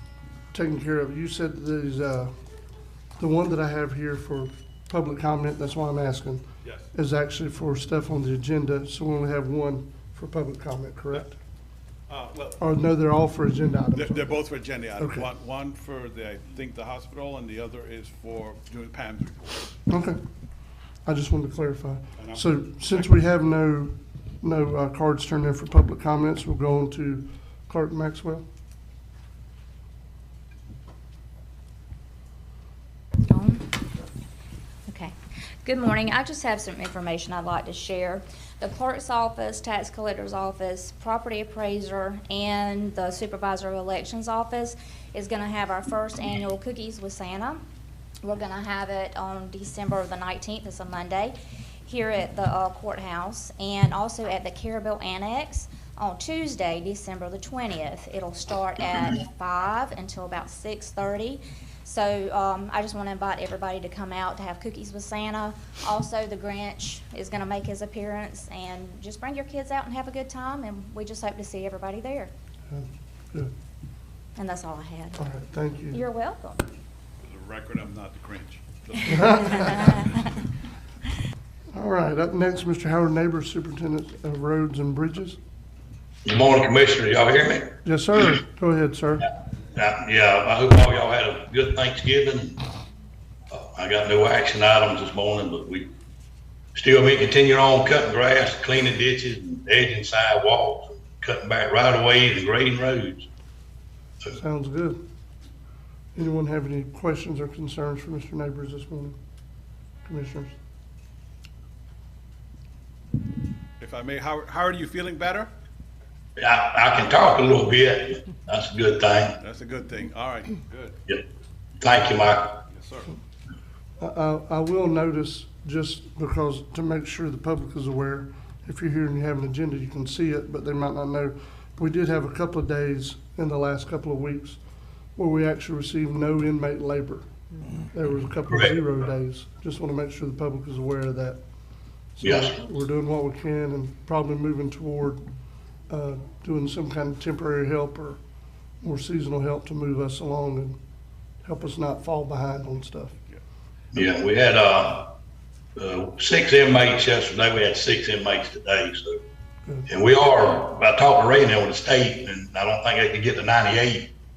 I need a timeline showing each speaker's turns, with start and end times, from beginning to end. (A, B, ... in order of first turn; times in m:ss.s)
0:00.5-0:02.3 A
0:03.2-0:11.3 A
0:12.1-0:12.6 B
0:12.6-0:14.4 A
0:13.9-0:19.8 B
0:15.0-0:15.3 A
0:19.9-0:20.2 A
0:21.0-0:28.4 A
0:22.2-0:23.1 B
0:33.2-0:33.7 C
0:34.9-0:35.1 C
0:35.6-0:47.6 C
0:48.2-0:51.3 C
0:51.9-1:12.3 C
1:12.7-1:13.5 A
1:14.4-1:15.2 C
1:15.2-1:16.0 A
1:15.9-1:16.7 C
1:17.2-1:20.4 B
1:19.1-1:19.6 A
1:19.6-1:19.9 C
1:21.7-1:25.4 A
1:26.2-1:27.8 D
1:27.8-1:29.3 A
1:29.7-1:32.7 D
1:33.5-1:35.9 D
1:36.8-1:43.3 D
1:44.3-1:45.0 A
1:46.2-1:49.2 A
1:50.0-1:50.5 A
1:53.8-1:55.5 B
1:56.4-1:59.4 D
1:59.4-2:01.0 B
2:01.8-2:02.6 D
2:02.7-2:03.1 B
2:04.0-2:14.6 A
2:15.2-2:17.3 A
2:17.8-2:21.4 A
2:22.2-2:25.2 A
2:22.2-2:22.5 D
2:25.9-2:28.2 A
2:28.8-2:30.8 A
2:31.4-2:33.2 A
2:33.9-2:35.1 D
2:35.8-2:39.2 D
2:39.9-2:44.1 D